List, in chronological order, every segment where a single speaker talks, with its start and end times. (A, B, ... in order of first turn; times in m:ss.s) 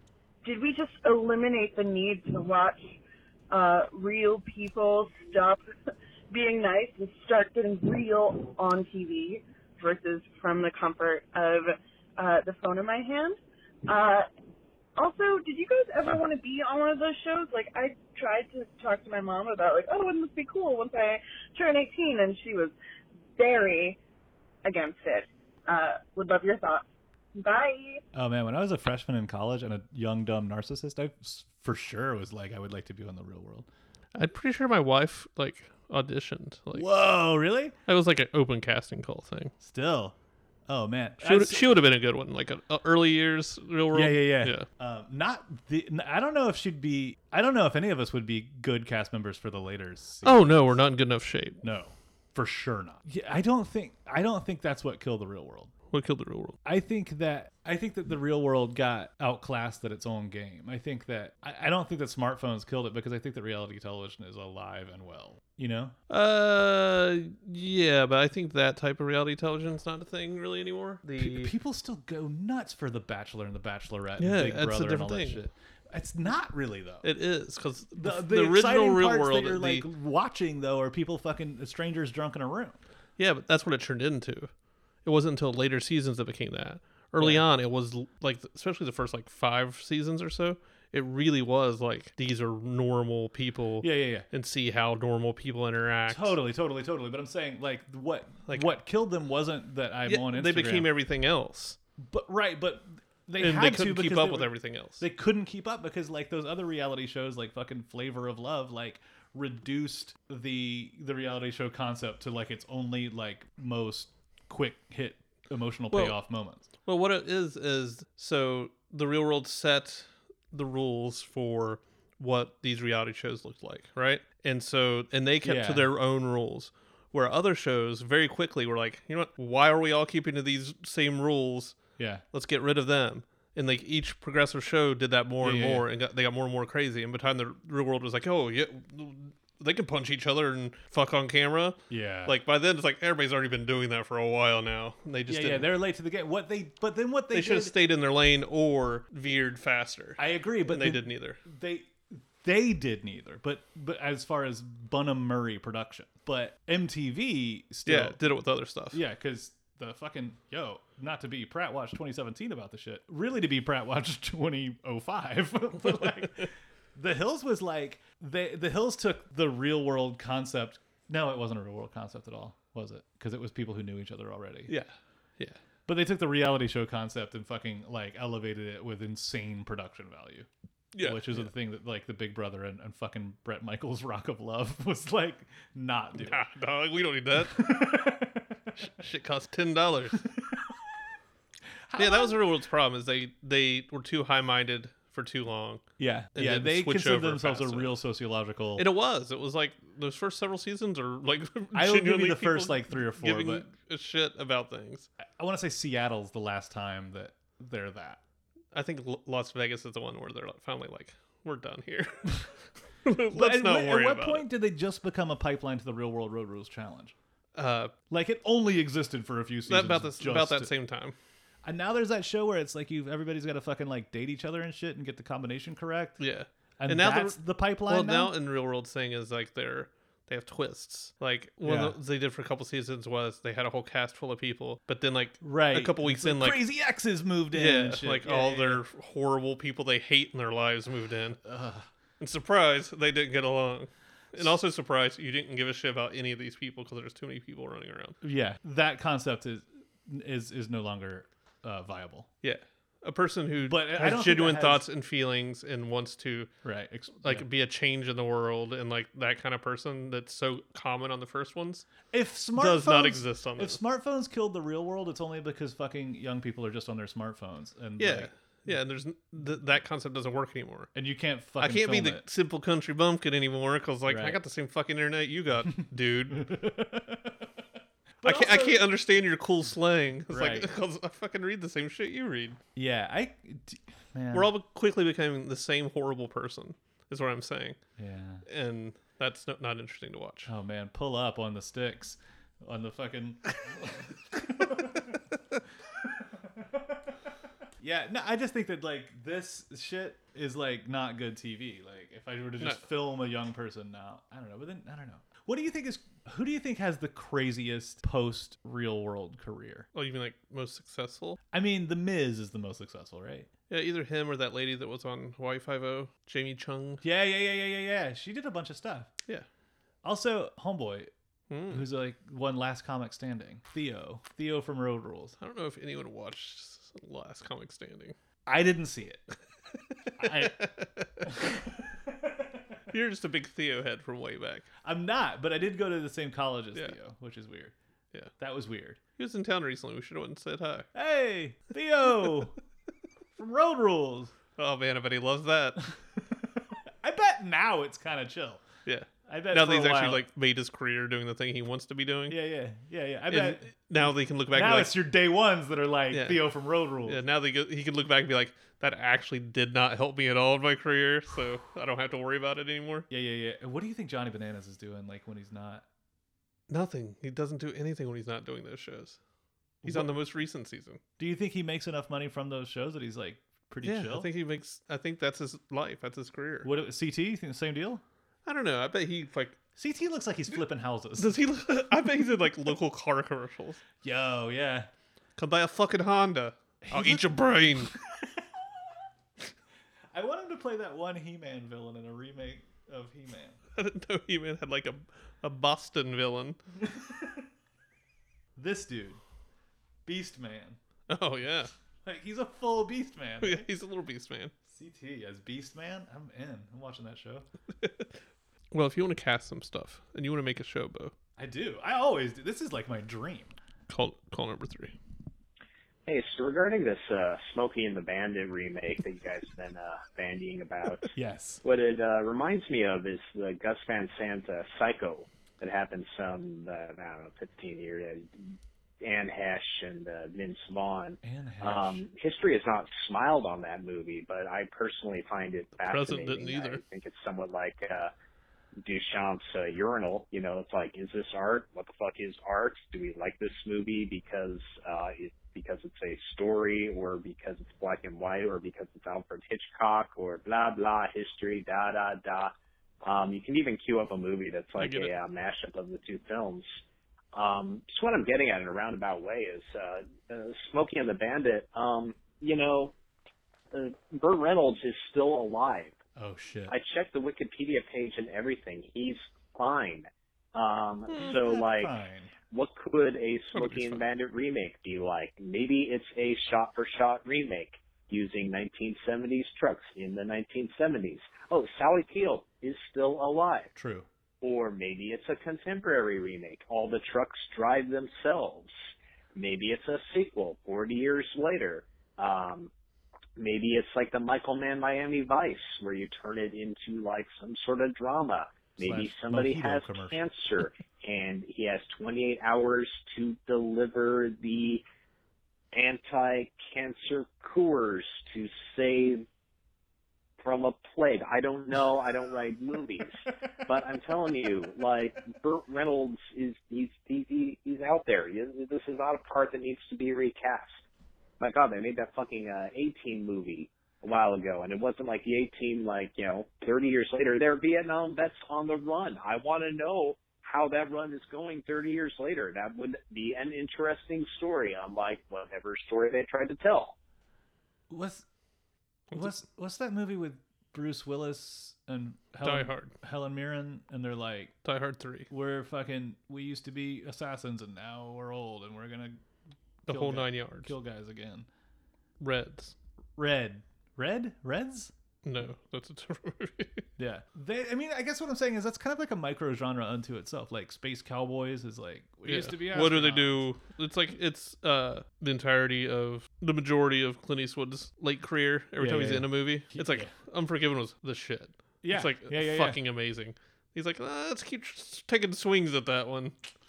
0:00.4-0:03.0 A
0:03.5-0:05.6 A
0:06.3-0:14.3 A
0:15.0-0:22.7 A
0:23.4-0:24.0 A
0:24.6-0:26.8 A
0:27.4-0:28.0 A
0:28.1-0:33.7 B
0:34.2-0:36.9 C
0:36.7-0:37.8 B
0:37.9-0:39.5 C
0:39.6-0:40.2 B
0:40.7-0:41.8 B
0:41.2-0:44.7 C
0:43.9-0:50.7 B
0:50.2-0:51.6 C
0:51.6-0:55.7 B
0:55.9-0:56.6 C
0:56.6-1:06.0 B
1:06.1-1:11.5 C
1:11.2-1:17.1 B
1:14.2-1:15.4 C
1:17.0-1:19.9 C
1:18.0-1:22.8 B
1:23.2-1:24.5 C
1:25.0-1:36.4 C
1:27.2-1:27.5 B
1:33.8-1:34.3 B
1:36.1-1:40.9 B
1:40.1-1:41.8 C
1:42.0-1:56.7 B
1:43.4-1:45.0 C
1:55.9-1:56.2 C
1:56.8-2:11.8 C
2:05.4-2:05.9 B
2:12.0-2:12.2 B
2:12.3-2:25.7 C
2:15.4-2:15.9 B
2:21.9-2:22.4 B
2:25.3-2:27.7 B
2:27.3-2:31.4 C
2:30.2-2:38.2 B
2:37.9-2:39.0 C
2:38.9-2:54.7 B
2:45.9-2:46.5 C
2:54.7-2:55.6 C
2:55.9-3:00.5 B
3:00.9-3:01.5 C
3:01.0-3:06.5 B
3:06.2-3:08.1 C
3:07.4-3:08.5 B
3:08.8-3:10.3 C
3:11.9-3:12.4 B
3:12.0-3:18.0 C
3:16.0-3:18.9 B
3:18.8-3:25.1 C
3:21.7-3:23.7 B
3:25.4-3:28.2 B
3:28.7-3:32.5 C
3:33.0-3:34.5 C
3:33.3-3:37.2 B
3:37.6-3:37.9 C
3:38.1-3:40.7 B
3:39.7-3:41.2 C
3:41.6-3:46.2 B
3:46.2-3:56.6 C
3:46.8-3:48.3 B
3:51.6-3:52.0 B
3:55.4-3:58.8 B
3:57.5-4:01.4 C
4:01.4-4:01.9 B
4:02.2-4:08.2 C
4:08.2-4:12.3 B
4:12.4-4:16.5 C
4:13.7-4:14.8 B
4:16.6-4:17.5 B
4:17.2-4:22.0 C
4:22.1-4:28.8 B
4:22.6-4:23.8 C
4:28.0-4:31.0 C
4:30.9-4:32.2 B
4:31.6-4:36.5 C
4:34.1-4:34.4 B
4:36.3-4:37.4 B
4:38.2-4:38.9 B
4:38.2-4:42.6 C
4:40.3-4:40.7 B
4:42.8-4:44.5 B
4:44.3-4:47.8 C
4:48.0-4:48.4 B
4:48.5-4:50.5 C
4:50.5-4:55.2 B
4:57.8-5:09.9 B
5:09.9-5:11.4 C
5:11.5-5:13.5 B
5:13.7-5:17.0 C
5:17.0-5:19.1 B
5:20.0-5:21.1 B
5:21.5-5:21.9 C
5:21.7-5:25.4 B
5:25.4-5:28.2 C
5:28.5-5:29.2 B
5:30.2-5:30.7 B
5:30.2-5:31.3 C
5:31.2-5:31.7 B
5:32.9-5:34.7 C
5:34.8-5:37.7 B
5:38.4-5:39.0 B
5:39.2-5:40.9 C
5:40.9-5:42.5 B
5:43.4-5:44.3 B
5:44.6-5:45.8 C
5:47.0-5:48.6 B
5:48.9-5:52.4 C
5:49.3-5:50.2 B
5:52.3-5:53.7 B
5:53.3-5:55.0 C
5:54.5-5:57.2 B
5:56.1-5:56.4 C
5:57.0-6:03.1 C
6:03.1-6:05.8 B
6:06.7-6:09.2 C
6:09.8-6:10.1 B
6:09.8-6:11.0 C
6:11.2-6:14.3 B
6:13.8-6:16.7 C
6:16.6-6:18.0 B
6:18.5-6:19.6 C
6:19.8-6:21.4 B
6:21.2-6:23.8 C
6:24.0-6:24.9 B
6:25.4-6:27.9 C
6:26.8-6:27.9 B
6:30.1-6:33.6 B
6:33.8-6:36.6 C
6:36.8-6:37.4 B
6:38.6-6:39.2 B
6:40.1-6:40.8 B
6:41.1-6:41.7 C
6:42.0-6:43.7 B
6:43.4-6:44.5 C
6:44.7-6:47.5 B
6:47.8-6:48.1 C
6:48.7-6:51.1 C
6:51.4-6:53.6 B
6:53.9-6:55.0 C
6:56.1-7:01.1 D
7:01.1-7:01.6 B
7:01.6-7:18.1 D
7:11.2-7:12.0 B
7:15.8-7:16.8 C
7:18.8-7:32.5 D
7:33.0-7:36.7 D
7:34.8-7:35.1 C
7:37.3-7:42.9 D
7:43.7-7:46.0 D
7:46.2-7:46.7 B
7:46.7-7:51.9 D
7:51.2-7:52.3 B
7:52.5-8:03.7 D
7:53.5-7:54.1 C
8:03.8-8:04.1 B
8:04.4-8:08.7 D
8:09.4-8:12.7 D
8:13.4-8:24.8 D
8:18.8-8:20.2 B
8:25.7-8:29.3 D
8:30.4-8:40.8 D
8:41.4-8:57.0 D
8:57.9-8:58.3 B
8:59.1-9:04.5 B
9:02.4-9:02.9 C
9:04.6-9:05.3 C
9:05.3-9:09.2 B
9:09.9-9:10.7 C
9:09.9-9:11.5 B
9:12.2-9:12.8 C
9:13.2-9:14.9 B
9:15.2-9:16.9 C
9:17.0-9:23.4 B
9:22.3-9:36.4 C
9:28.8-9:30.1 B
9:31.8-9:32.8 B